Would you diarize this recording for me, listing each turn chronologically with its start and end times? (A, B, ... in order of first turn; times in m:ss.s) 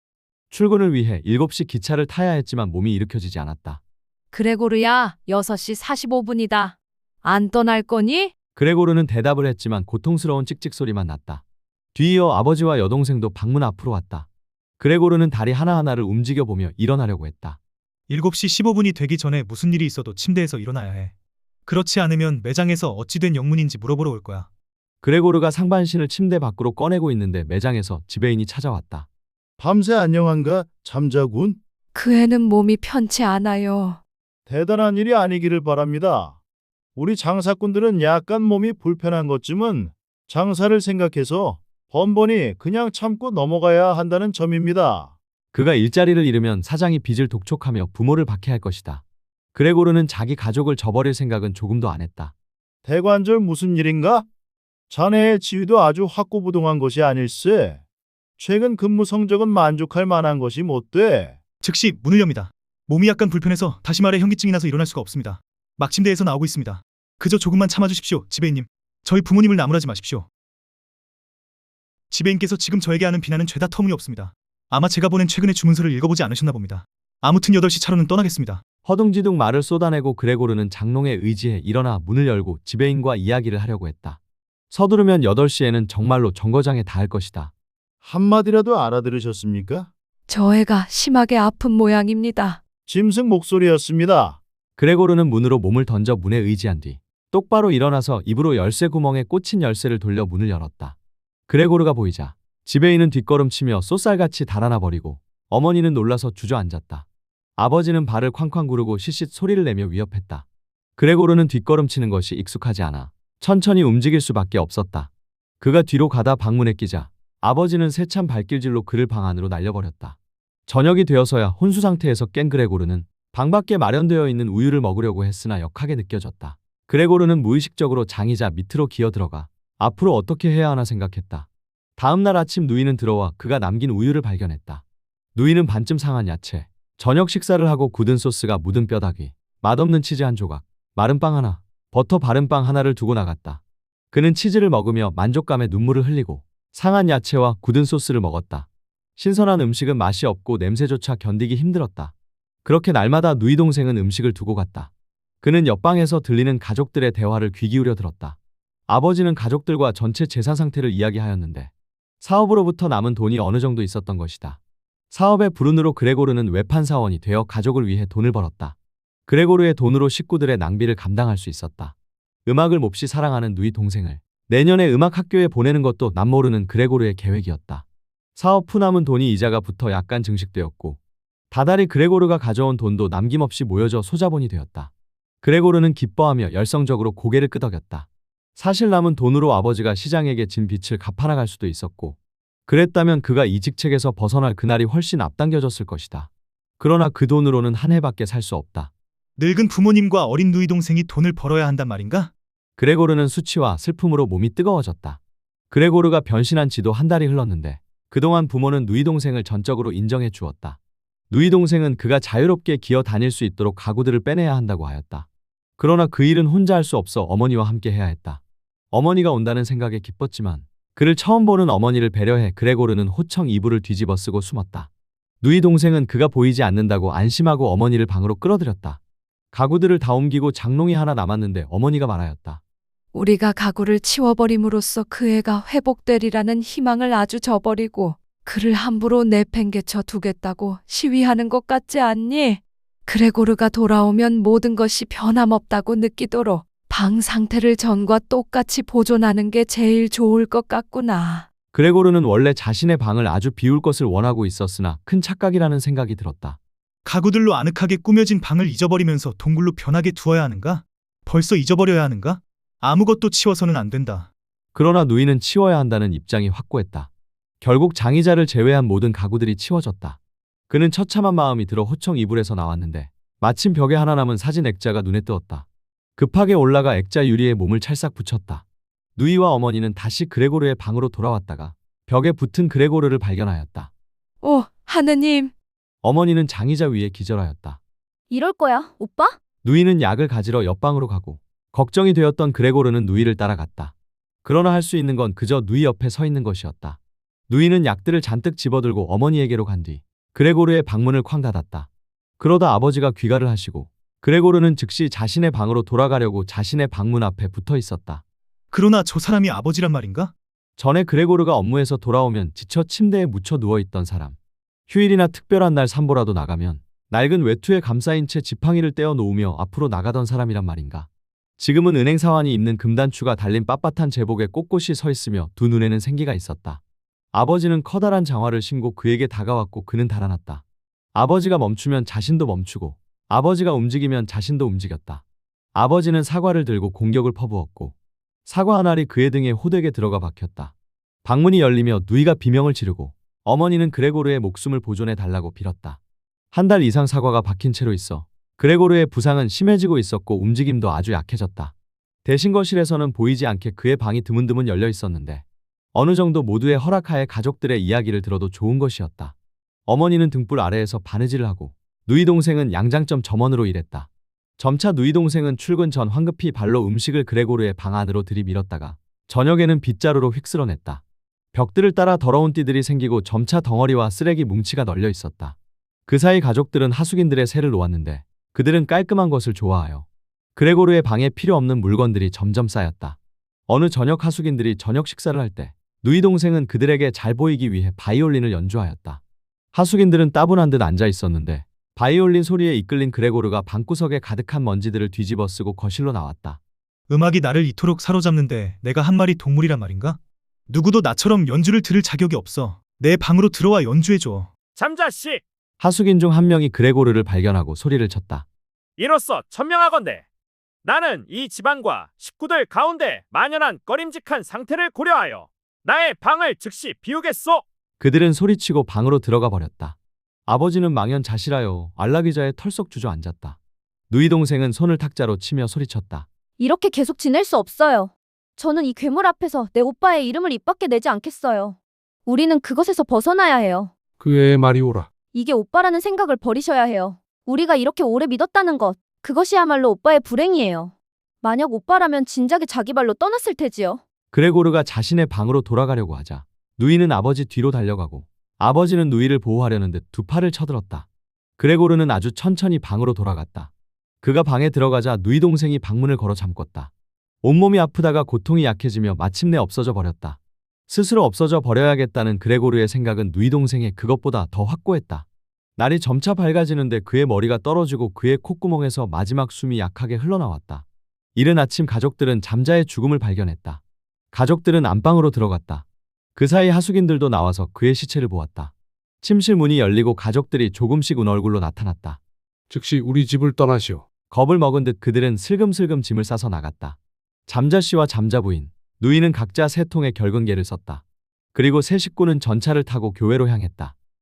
0:00.5-0:03.8 A
0:04.3-0:08.3 B
0:08.6-0:11.4 A
0:12.0-0:14.3 A
0:14.8-0:17.6 A
0:18.1-0:21.1 C
0:21.7-0:24.5 C
0:25.0-0:29.1 A
0:29.6-0:31.6 D
0:32.0-0:34.0 B
0:34.5-0:36.4 D
0:37.0-0:45.2 D
0:45.5-0:49.0 A
0:49.6-0:52.3 A
0:52.8-0:54.3 D
0:54.9-0:57.8 D
0:58.4-1:01.4 D
1:01.6-1:10.3 C
1:12.1-1:18.6 C
1:18.8-1:24.2 A
1:24.7-1:27.5 A
1:28.0-1:29.9 D
1:30.3-1:32.6 B
1:32.9-1:34.4 D
1:34.8-1:41.0 A
1:41.5-1:47.1 A
1:47.6-1:50.4 A
1:51.0-1:55.1 A
1:55.6-2:14.8 A
2:15.4-2:23.6 A
2:24.1-2:32.1 A
2:32.6-2:34.9 A
2:35.4-2:38.4 A
2:38.9-2:44.6 A
2:45.1-2:48.8 A
2:49.3-2:51.9 A
2:52.5-3:01.0 A
3:01.5-3:04.9 A
3:05.4-3:18.9 A
3:19.4-3:22.3 C
3:22.8-3:25.2 A
3:25.7-3:30.8 A
3:31.3-3:35.3 A
3:35.8-3:44.9 A
3:45.4-3:49.0 A
3:49.5-3:52.6 A
3:53.1-4:11.5 B
4:11.7-4:16.6 A
4:17.0-4:24.3 C
4:24.8-4:27.1 A
4:27.6-4:30.2 A
4:30.7-4:35.6 A
4:36.2-4:38.6 A
4:39.2-4:43.9 A
4:44.4-4:45.5 B
4:46.0-4:47.8 A
4:48.3-4:49.4 E
4:49.6-4:57.0 A
4:57.5-5:01.9 A
5:02.4-5:08.2 A
5:08.7-5:10.3 C
5:10.8-5:14.4 A
5:14.9-5:21.1 A
5:21.6-5:26.8 A
5:27.3-5:30.6 A
5:31.2-5:35.2 A
5:35.8-5:46.0 A
5:46.5-5:51.7 A
5:52.2-5:59.3 A
5:59.9-6:11.0 A
6:11.5-6:15.6 A
6:16.1-6:23.2 A
6:23.7-6:29.2 A
6:29.7-6:36.6 A
6:37.1-6:44.5 C
6:44.7-6:45.4 F
6:45.8-6:48.4 A
6:49.0-6:50.2 F
6:50.8-6:57.6 F
6:58.0-7:00.0 A
7:00.5-7:03.6 A
7:04.1-7:06.3 A
7:06.6-7:13.9 E
7:14.2-7:15.1 G
7:15.3-7:24.0 E
7:24.3-7:31.1 A
7:31.6-7:33.7 A
7:34.2-7:36.9 A
7:37.4-7:45.2 A
7:45.8-7:50.8 A
7:51.4-7:53.8 A
7:54.3-8:02.2 A
8:02.7-8:04.0 G
8:04.3-8:11.0 A
8:11.5-8:13.9 A